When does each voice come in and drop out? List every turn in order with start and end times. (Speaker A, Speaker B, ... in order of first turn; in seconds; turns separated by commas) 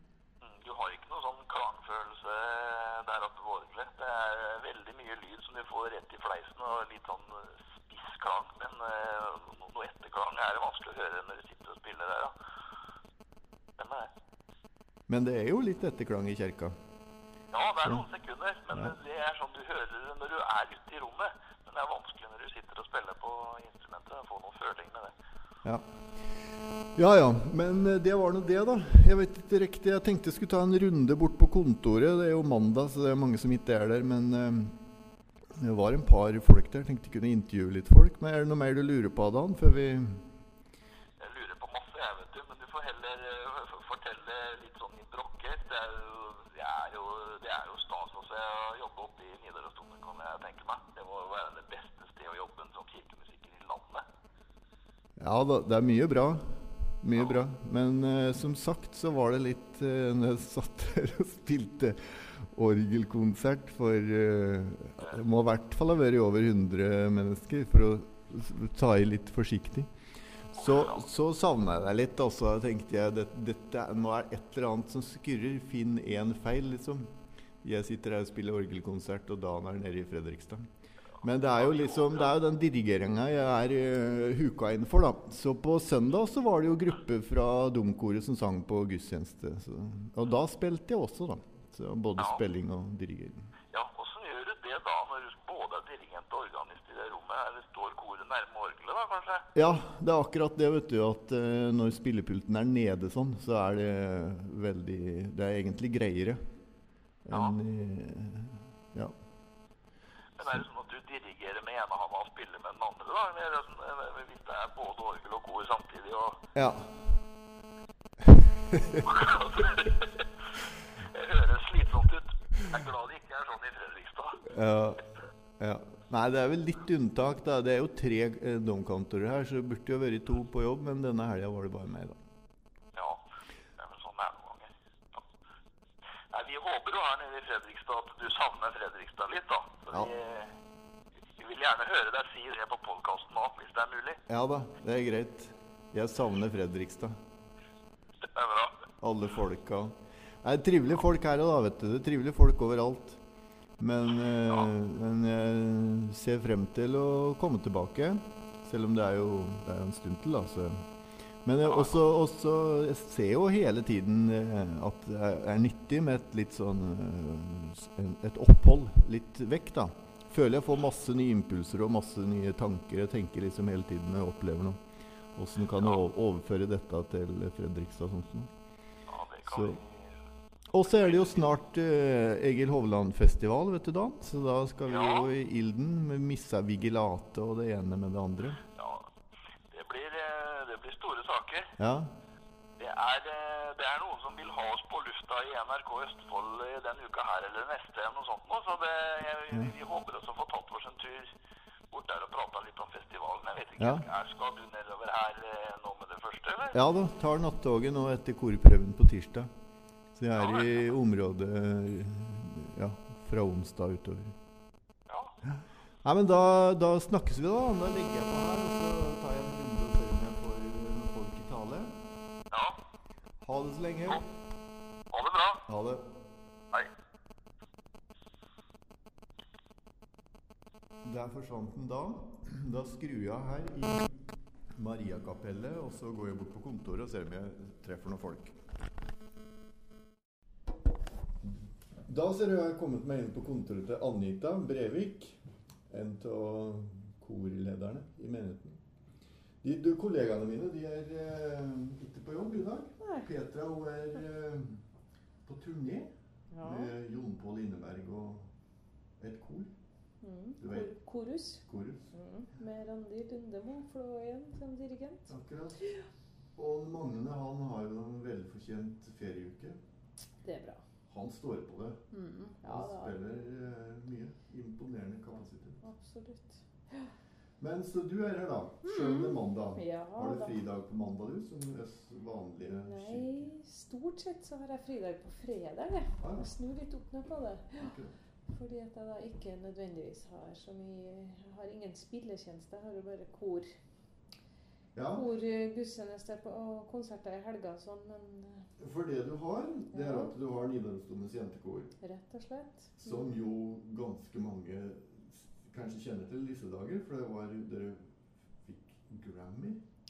Speaker A: 0.4-12.3, Speaker A: 13.8-14.1, Speaker B: 15.1-16.8, Speaker A: 17.5-25.1, Speaker B: 18.7-18.9, Speaker B: 25.6-26.2, Speaker B: 26.9-34.8, Speaker B: 35.6-40.2, Speaker A: 41.2-54.0, Speaker B: 55.2-80.7, Speaker A: 57.1-57.4, Speaker A: 70.6-71.0, Speaker B: 81.2-93.5, Speaker A: 81.6-82.3, Speaker A: 93.7-99.5, Speaker B: 99.5-106.5, Speaker B: 107.2-109.1, Speaker A: 107.3-107.6, Speaker A: 110.4-116.4, Speaker B: 116.5-117.1, Speaker B: 118.2-119.1, Speaker A: 119.0-120.2, Speaker A: 120.8-124.4, Speaker B: 124.5-125.0, Speaker B: 125.6-132.2, Speaker A: 132.9-133.2, Speaker A: 133.8-135.2, Speaker A: 136.3-140.5, Speaker A: 141.4-144.2, Speaker B: 144.3-147.2, Speaker A: 148.2-148.8, Speaker B: 149.0-153.2, Speaker B: 153.8-160.9, Speaker B: 161.4-174.8, Speaker A: 161.6-162.0, Speaker B: 175.3-178.5, Speaker A: 179.1-180.1, Speaker B: 179.4-179.8, Speaker B: 180.7-188.6, Speaker A: 180.8-181.5, Speaker A: 184.9-185.3, Speaker A: 188.7-189.1, Speaker A: 189.7-191.7, Speaker B: 191.8-192.2, Speaker A: 192.8-201.3, Speaker A: 201.9-206.8, Speaker B: 203.8-204.1, Speaker B: 206.7-209.5, Speaker B: 210.1-214.3, Speaker A: 210.3-210.9, Speaker A: 215.1-215.3, Speaker B: 215.4-222.0, Speaker A: 222.5-222.8, Speaker B: 223.4-224.2, Speaker A: 225.1-225.6, Speaker B: 225.7-226.1, Speaker B: 231.0-234.1, Speaker B: 234.7-238.6, Speaker B: 241.4-248.8, Speaker B: 249.6-254.8, Speaker C: 253.0-253.3, Speaker B: 255.4-258.5, Speaker C: 256.5-256.9, Speaker B: 259.2-259.7, Speaker C: 260.2-266.1, Speaker B: 260.6-260.9, Speaker B: 261.6-262.0, Speaker B: 265.3-265.8, Speaker B: 266.6-269.8, Speaker C: 270.4-270.8, Speaker B: 271.1-272.0, Speaker C: 272.1-273.2, Speaker B: 272.6-275.8, Speaker C: 275.8-277.1, Speaker B: 277.6-283.5, Speaker C: 278.8-280.6, Speaker C: 282.6-287.9, Speaker B: 286.2-286.5, Speaker B: 287.8-288.1, Speaker C: 288.5-293.7, Speaker B: 294.9-295.2, Speaker C: 295.1-298.7, Speaker B: 298.8-301.9, Speaker C: 299.9-300.3, Speaker C: 302.0-303.3, Speaker B: 303.0-308.1, Speaker B: 308.6-309.8